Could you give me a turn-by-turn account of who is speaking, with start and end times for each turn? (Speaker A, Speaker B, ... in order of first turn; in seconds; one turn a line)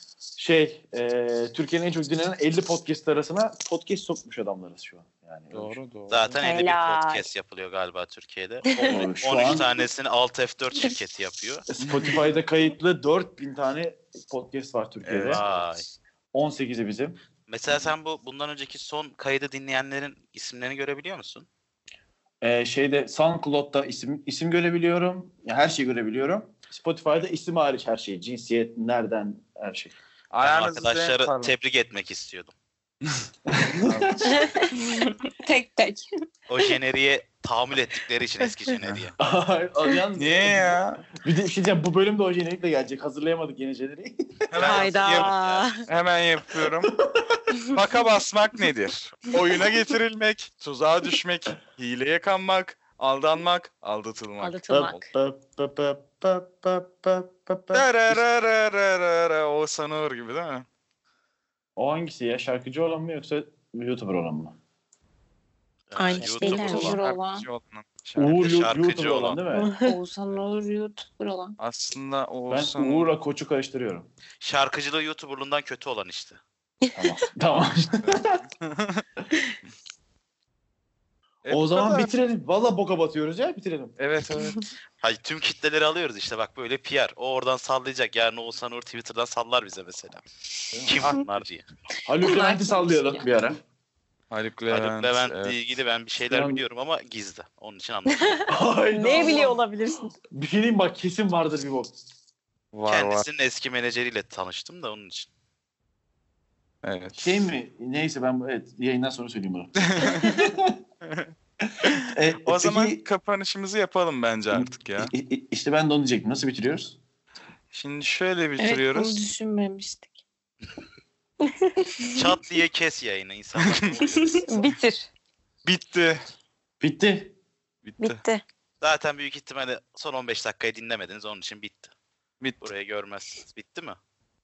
Speaker A: 0.4-5.8
Speaker B: 5.5-6.4
Speaker C: 6.1-11.7
Speaker D: 6.4-7.3
Speaker D: 8.7-9.1
Speaker A: 8.9-9.7
Speaker A: 11.7-15.4
Speaker B: 15.0-15.8
Speaker C: 15.3-15.9
Speaker A: 16.3-17.2
Speaker C: 17.5-21.5
Speaker A: 22.4-29.9
Speaker B: 30.3-31.6
Speaker C: 30.4-32.5
Speaker A: 33.5-34.3
Speaker B: 33.7-34.6
Speaker D: 34.4-34.7
Speaker E: 34.7-36.0
Speaker C: 36.5-39.2
Speaker B: 38.8-39.1
Speaker A: 39.2-44.5
Speaker B: 40.2-41.0
Speaker B: 44.5-45.4
Speaker C: 44.5-45.7
Speaker D: 44.6-45.9
Speaker B: 45.9-46.9
Speaker A: 46.8-47.5
Speaker B: 47.7-55.0
Speaker D: 54.4-55.0
Speaker A: 54.7-58.2
Speaker B: 57.7-60.7
Speaker A: 61.8-64.6
Speaker C: 65.9-67.0
Speaker D: 66.0-67.0
Speaker B: 66.2-68.5
Speaker E: 66.4-67.5
Speaker A: 68.2-69.8
Speaker C: 68.3-69.4
Speaker D: 69.5-70.0
Speaker E: 69.8-71.6
Speaker B: 71.6-73.1
Speaker A: 72.5-74.1
Speaker C: 74.4-76.4
Speaker A: 77.0-78.4
Speaker B: 78.0-79.0
Speaker B: 81.5-82.1
Speaker A: 81.5-84.0
Speaker B: 84.0-84.7
Speaker C: 85.0-91.7
Speaker A: 90.7-91.1
Speaker A: 92.0-93.6
Speaker E: 92.2-93.2
Speaker B: 94.3-95.6
Speaker C: 94.7-98.6
Speaker A: 96.3-96.6
Speaker D: 98.3-100.1
Speaker A: 98.5-99.6
Speaker A: 100.3-102.0
Speaker B: 102.7-103.3
Speaker C: 102.9-105.3
Speaker B: 106.8-107.5
Speaker A: 107.2-110.8
Speaker B: 109.9-110.5
Speaker B: 111.0-111.3
Speaker A: 111.7-113.0
Speaker B: 111.9-115.1
Speaker A: 114.5-117.0
Speaker B: 117.7-119.2
Speaker E: 118.6-120.2
Speaker D: 121.6-121.9
Speaker C: 122.1-124.5
Speaker B: 123.6-124.0
Speaker D: 124.5-125.1
Speaker B: 125.7-126.2
Speaker A: 126.8-127.3
Speaker B: 127.8-128.2
Speaker D: 128.0-128.4
Speaker C: 128.8-131.9
Speaker C: 132.6-134.0